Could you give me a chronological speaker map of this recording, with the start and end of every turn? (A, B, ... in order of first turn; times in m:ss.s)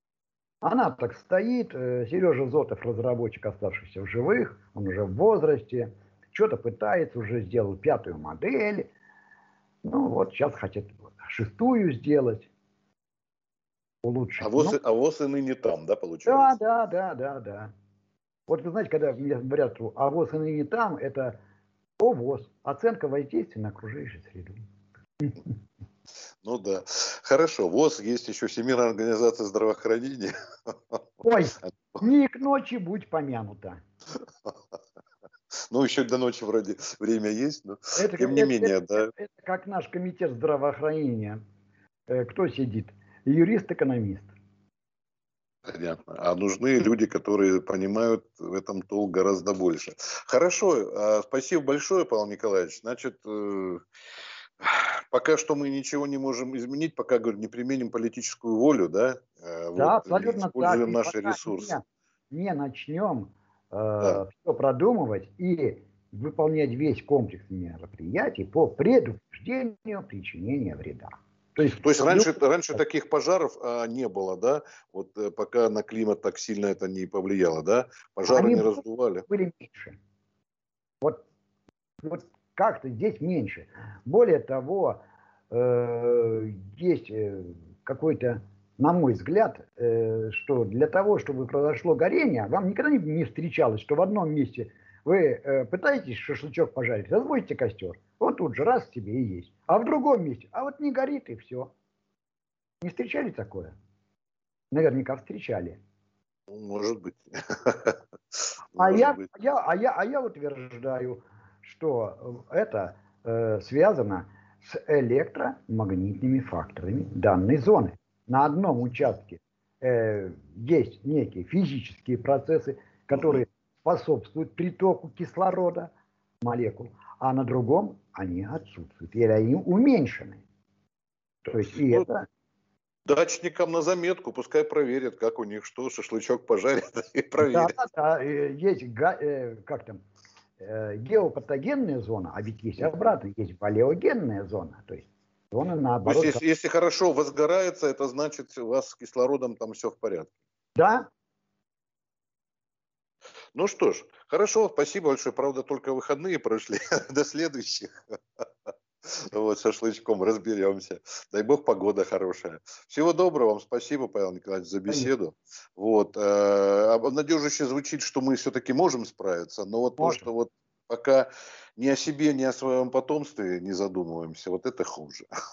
0:00.6-0:08.9 A
0:09.8-0:12.5 A
0:14.0-0:14.8 A
0:14.4-0:16.6 B
0:16.3-0:17.7 A
0:18.5-0:21.4 A
0:22.0-0:24.6 A
0:26.4-0:32.0 B
0:31.2-0:33.8 A
0:35.7-0:39.1 B
0:38.0-0:41.4 A
0:42.1-0:44.3 A
0:45.7-0:53.8 B
0:54.6-1:01.8 B
0:59.8-1:12.8 A
1:11.7-1:19.3 B
1:18.3-1:20.0 A
1:22.0-1:41.7 A
1:42.8-1:43.7 A
1:44.7-1:45.8 A
1:46.5-1:48.0 B
1:48.7-1:49.3 B
1:48.8-2:10.4 A
2:11.4-2:12.3 A
2:11.8-2:12.1 B
2:13.1-2:17.8 B
2:17.4-2:20.0 A
2:20.6-2:26.4 A
2:26.0-2:30.3 B
2:30.8-2:31.1 A
2:33.6-2:37.9 B
2:39.0-2:55.3 B
2:50.0-2:50.3 A